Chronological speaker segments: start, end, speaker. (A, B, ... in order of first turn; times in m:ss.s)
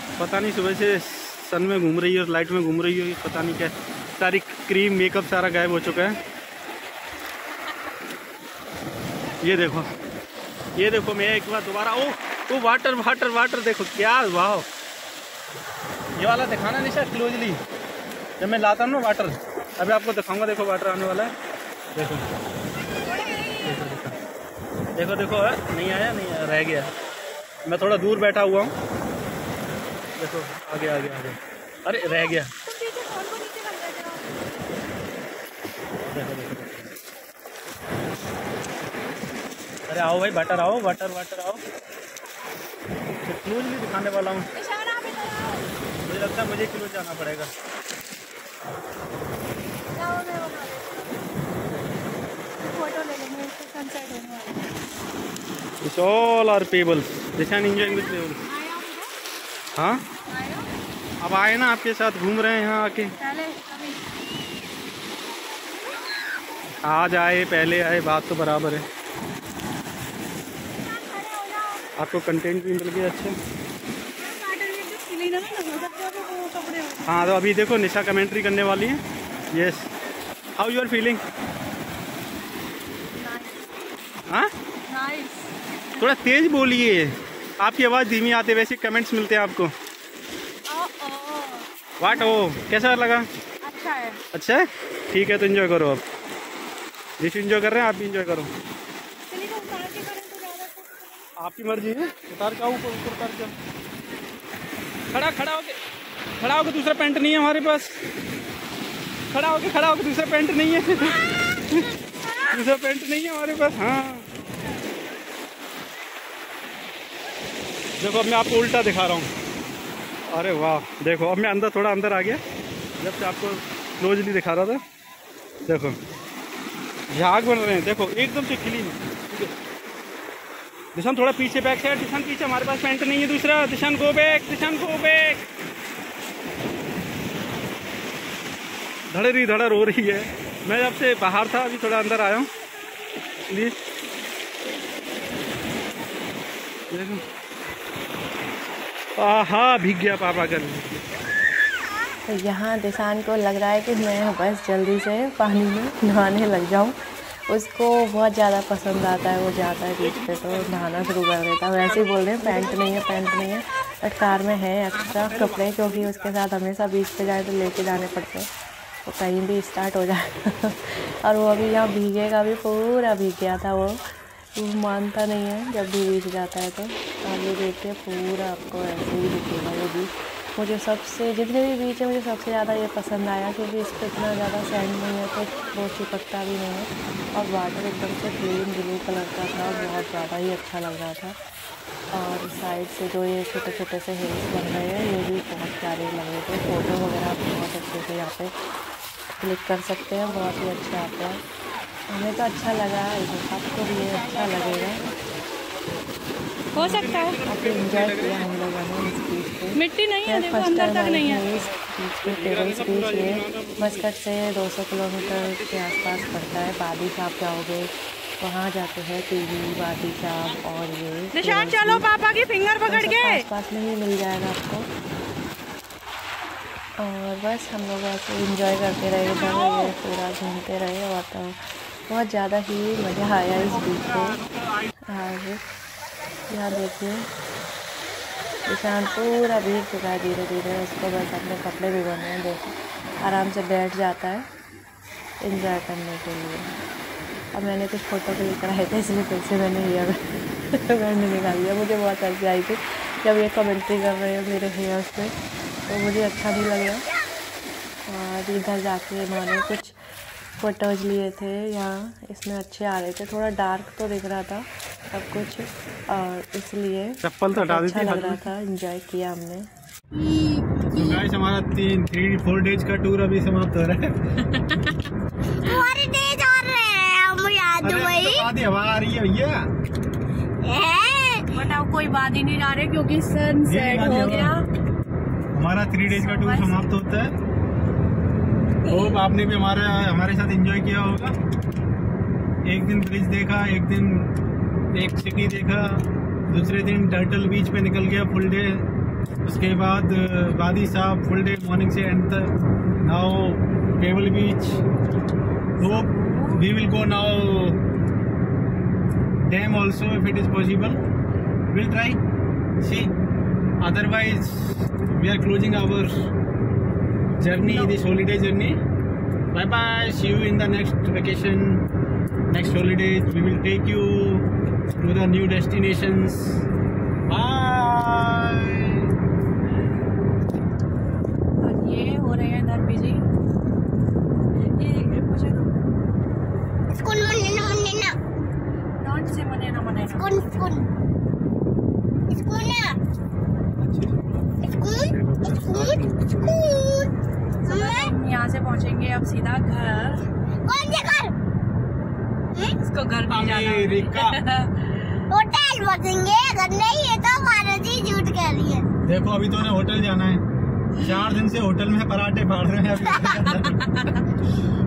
0:00.2-0:06.2 A
0:09.4-0:09.9 A
0:10.8-0:14.7 A
0:16.2-0:17.6 A
0:18.4-0:21.3 A
0:22.0-0:22.3 A
0:23.6-0:24.2 A
0:25.0-0:26.9 A
0:27.7-0:28.7 A
0:30.2-0:32.5 A
0:32.4-0:34.4 B
0:36.0-0:36.9 A
0:39.9-0:41.6 A
0:43.2-0:44.5 A
0:44.5-0:45.7 B
0:46.0-0:47.5 A
0:50.0-0:51.3 B
0:52.7-0:54.7 B
0:55.8-0:58.4 A
0:58.4-0:59.1 B
0:59.8-1:00.0 A
1:00.3-1:00.7 B
1:01.2-1:03.1 A
1:03.2-1:04.0 B
1:06.8-1:08.9 A
1:10.9-1:11.9 B
1:12.0-1:13.4 A
1:14.2-1:17.3 B
1:17.1-1:19.9 A
1:20.6-1:21.2 A
1:23.2-1:23.7 B
1:24.9-1:26.1 B
1:26.0-1:29.7 A
1:30.7-1:32.4 B
1:32.0-1:33.3 A
1:33.6-1:34.2 B
1:34.3-1:36.0 A
1:37.2-1:38.5 A
1:39.3-1:41.3 B
1:41.4-1:43.6 A
1:45.1-1:45.8 A
1:46.4-1:48.0 A
1:49.3-1:54.3 A
1:58.0-1:59.3 A
2:00.3-2:02.4 A
2:03.0-2:04.8 A
2:05.6-2:06.0 A
2:07.1-2:09.5 A
2:11.0-2:15.5 A
2:19.1-2:22.5 A
2:23.2-2:23.8 A
2:26.9-2:27.2 A
2:29.2-2:31.1 A
2:32.3-2:48.5 C
2:40.0-2:41.2 A
2:41.8-2:43.1 A
2:44.9-2:46.4 A
2:49.0-3:11.4 C
3:12.1-3:18.6 C
3:19.4-3:21.4 C
3:22.1-3:25.1 C
3:26.8-3:27.4 B
3:26.8-3:42.1 C
3:26.8-3:28.6 A
3:29.8-3:31.4 B
3:32.2-3:34.1 A
3:35.3-3:35.9 A
3:41.3-3:43.4 B
3:42.8-3:44.9 C
3:47.0-3:54.4 C
3:55.0-3:55.6 C
3:56.5-3:57.3 C
3:58.6-4:04.5 C
4:05.4-4:06.8 C
4:07.5-4:15.4 C
4:15.9-4:17.0 C
4:18.1-4:20.0 C
4:20.6-4:29.7 C
4:27.2-4:28.5 A
4:30.1-4:31.2 D
4:30.9-4:34.4 A
4:35.5-4:38.5 D
4:37.8-4:39.7 A
4:40.6-4:41.5 D
4:41.5-4:44.6 B
4:43.6-4:44.6 A
4:45.5-4:47.3 A
4:46.1-4:46.9 B
4:48.9-4:51.4 A
4:52.6-4:54.3 A
4:54.9-4:58.8 A
4:59.4-5:04.8 A
5:05.8-5:06.6 B
5:05.8-5:07.8 A
5:09.4-5:11.0 A
5:11.7-5:12.2 A
5:12.8-5:13.1 A
5:13.8-5:16.3 A
5:17.4-5:18.8 A
5:17.7-5:17.9 B
5:19.5-5:21.8 A
5:22.5-5:26.6 A
5:27.3-5:29.1 A
5:31.6-5:33.2 B
5:34.8-5:35.8 B
5:36.9-5:38.2 D
5:39.0-5:40.5 B
5:40.2-5:40.9 D
5:42.3-5:43.0 D
5:43.8-5:44.3 A
5:44.7-5:47.1 D
5:45.1-5:46.8 A
5:47.6-5:50.3 B
5:47.7-5:48.1 D
5:50.6-5:51.3 D
5:52.7-5:54.9 B
5:53.3-5:54.4 A
5:55.3-5:58.9 D
5:59.0-6:00.4 A
6:01.0-6:03.9 A
6:03.5-6:04.1 B